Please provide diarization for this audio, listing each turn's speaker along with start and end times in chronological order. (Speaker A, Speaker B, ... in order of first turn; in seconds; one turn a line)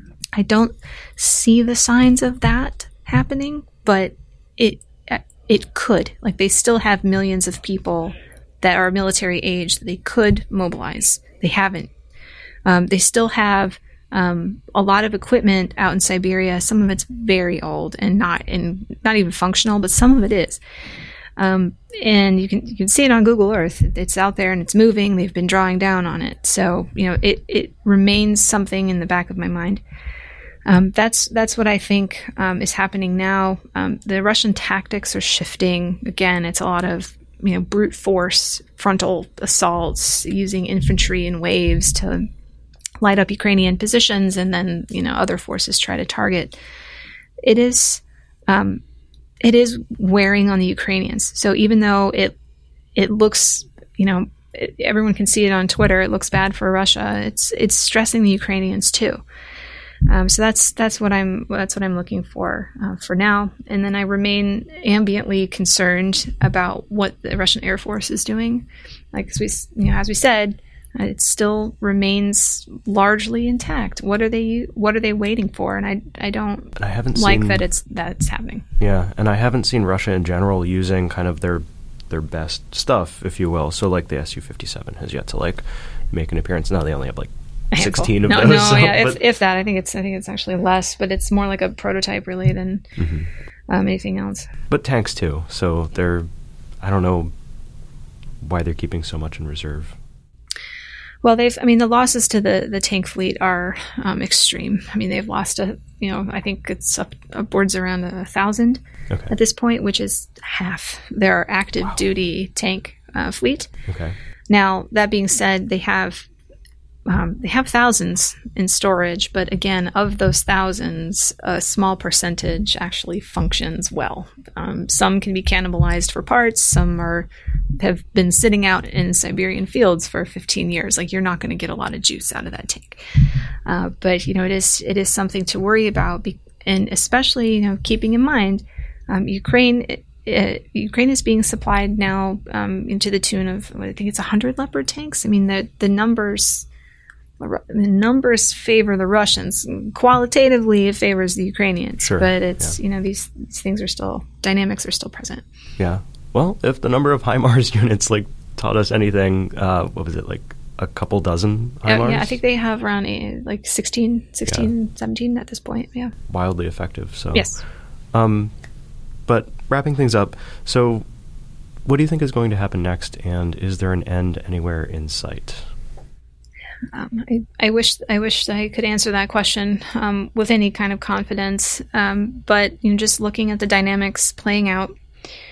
Speaker A: 0.3-11.9
Speaker A: 12.6-20.6
Speaker A: 21.4-29.8
Speaker A: 30.6-42.3
Speaker A: 43.0-46.6
Speaker A: 47.4-48.8
Speaker A: 49.4-52.3
Speaker A: 52.9-59.2
Speaker A: 60.0-78.7
Speaker B: 76.8-77.6
Speaker B: 78.8-89.2
Speaker A: 87.7-92.8
Speaker B: 93.0-93.3
Speaker A: 93.7-94.5
Speaker B: 94.7-96.3
Speaker B: 96.8-97.3
Speaker B: 98.4-100.0
Speaker A: 101.2-113.7
Speaker B: 113.9-114.1
Speaker A: 114.5-116.3
Speaker A: 117.0-146.7
Speaker A: 147.4-155.4
Speaker B: 152.0-152.8
Speaker B: 155.8-162.4
Speaker A: 161.8-166.1
Speaker B: 166.3-167.5
Speaker A: 167.3-167.6
Speaker B: 168.1-168.5
Speaker B: 169.3-171.0
Speaker B: 171.8-175.7
Speaker A: 176.9-184.9